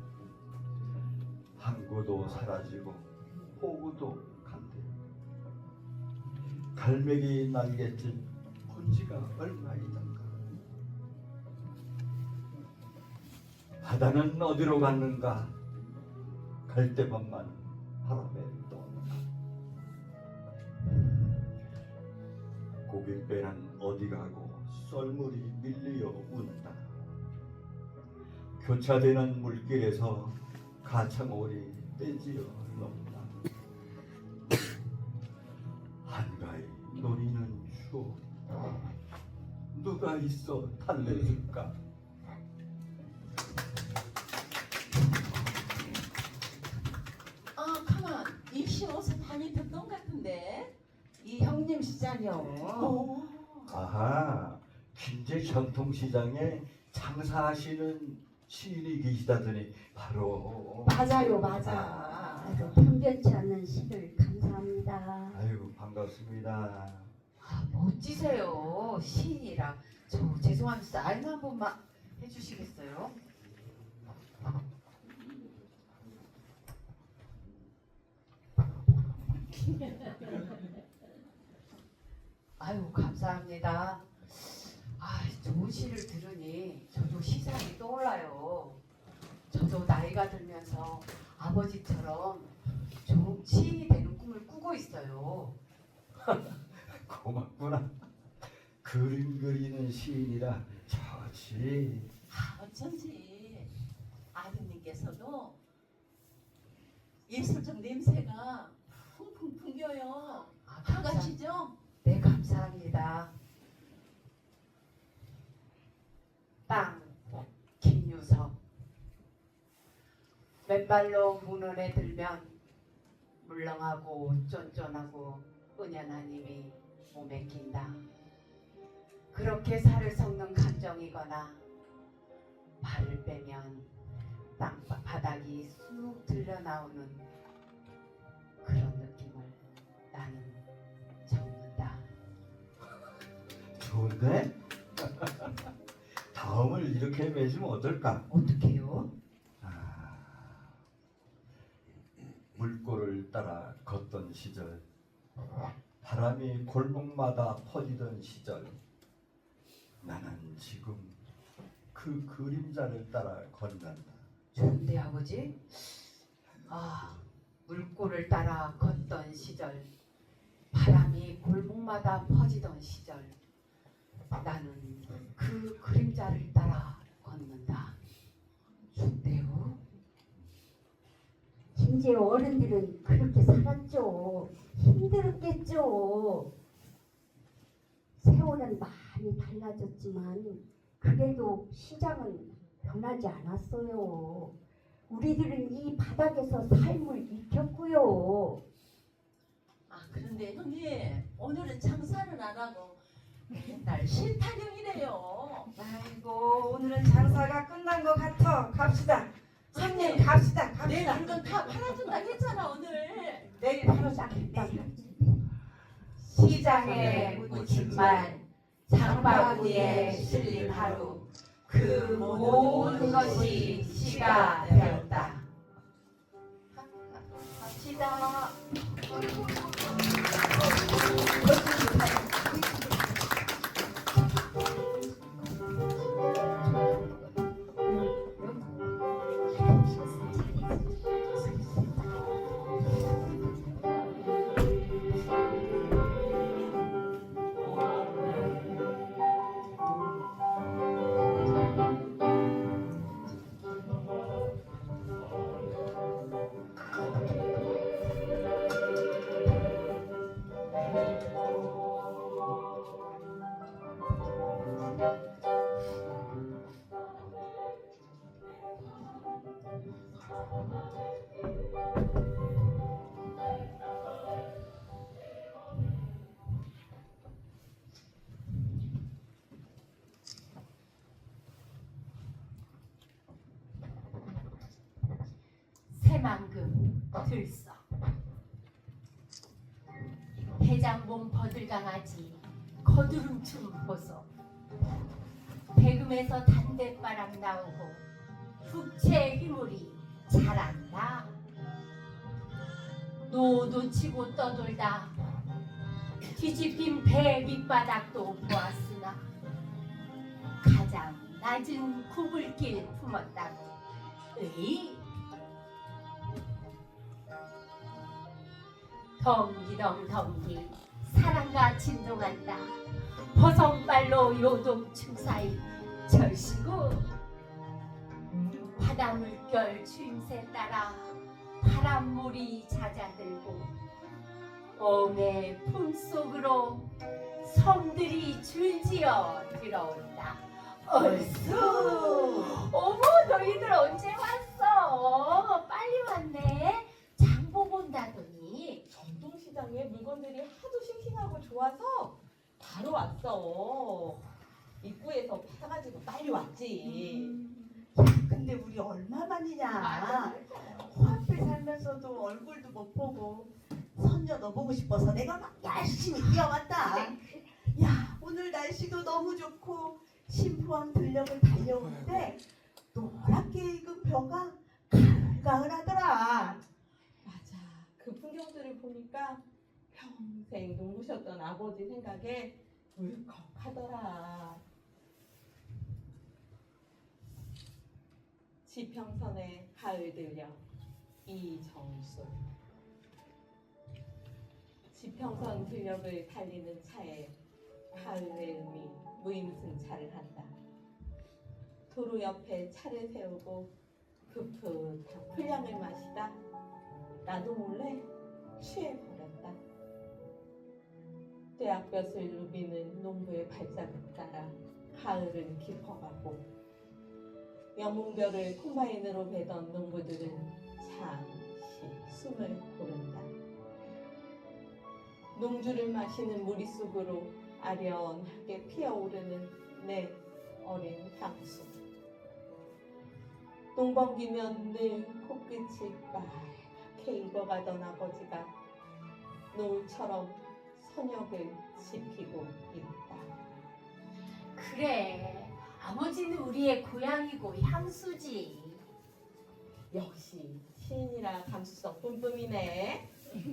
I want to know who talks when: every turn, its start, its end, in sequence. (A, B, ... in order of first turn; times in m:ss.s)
0:01.6-0:04.9 A
0:06.7-0:10.4 A
0:13.8-0:15.5 A
0:16.6-0:19.2 A
0:22.8-0:26.9 A
0:28.6-0:33.3 A
0:36.0-0:38.2 A
0:39.7-0:41.7 A
0:47.6-0:50.7 B
0:51.2-0:53.0 C
0:53.7-1:02.1 A
1:01.0-1:02.5 C
1:01.0-1:05.4 D
1:05.3-1:07.1 A
1:07.4-1:13.1 E
1:22.6-1:28.8 E
1:29.5-1:32.5 E
1:33.0-1:35.5 E
1:36.8-1:37.9 A
1:38.8-1:42.1 A
1:42.3-1:43.7 B
1:44.3-1:45.6 B
1:47.3-1:51.7 B
1:50.6-1:51.3 E
1:52.0-1:53.3 E
1:56.7-1:57.2 E
1:57.8-1:58.6 E
2:00.6-2:02.6 E
2:03.4-2:08.0 E
2:09.3-2:11.6 E
2:12.8-2:13.9 E
2:14.6-2:17.2 E
2:18.6-2:19.6 E
2:20.1-2:20.6 E
2:21.2-2:22.0 E
2:23.7-2:28.2 A
2:28.3-2:29.1 E
2:29.6-2:30.7 A
2:32.5-2:34.8 A
2:36.0-2:38.8 A
2:40.0-2:41.2 A
2:41.9-2:44.2 A
2:44.5-2:46.1 E
2:46.7-2:49.9 E
2:50.7-2:53.4 E
2:54.4-2:57.9 E
2:58.9-2:59.8 E
3:01.7-3:06.5 D
3:08.2-3:14.5 D
3:15.1-3:18.6 D
3:19.9-3:25.7 B
3:25.8-3:31.6 C
3:29.7-3:33.5 B
3:33.5-3:34.8 C
3:33.8-3:35.5 D
3:36.2-3:41.2 E
3:36.4-3:38.0 C
3:36.7-3:38.4 A
3:38.9-3:40.6 C
3:39.0-3:41.3 A
3:39.1-3:39.4 B
3:40.0-3:40.6 B
3:41.7-3:45.1 B
3:41.7-3:45.0 C
3:41.7-3:45.4 E
3:46.7-3:48.6 C
3:51.4-3:52.4 C
3:57.8-3:58.7 D
3:59.6-4:02.0 D
4:45.9-4:47.8 F
4:50.6-4:54.3 F
4:55.7-4:58.0 F
4:58.6-5:01.3 F
5:03.2-5:05.1 F
5:06.3-5:09.2 F
5:10.6-5:13.7 F
5:14.3-5:15.0 F
5:19.2-5:27.1 F
5:28.8-5:33.7 F
5:34.8-5:36.9 F
5:37.4-5:48.8 F
5:41.0-5:41.9 G
5:48.9-5:54.2 H
5:54.8-5:57.4 H
5:56.9-6:12.4 G
5:59.8-6:00.7 F
6:06.8-6:07.1 F
6:12.9-6:16.6 G
6:17.2-6:24.6 H
6:28.6-6:30.6 H
6:31.2-6:32.4 H
6:34.9-6:37.3 H
6:37.9-6:40.5 H
6:41.9-6:43.7 H
6:44.3-6:46.4 H
6:47.2-6:48.1 H
6:48.6-6:49.6 H
6:51.6-6:56.4 H
6:57.7-7:03.3 H
7:05.3-7:11.8 H
7:13.7-7:18.5 H
7:19.5-7:23.4 H
7:24.5-7:28.8 F
7:29.9-7:33.1 H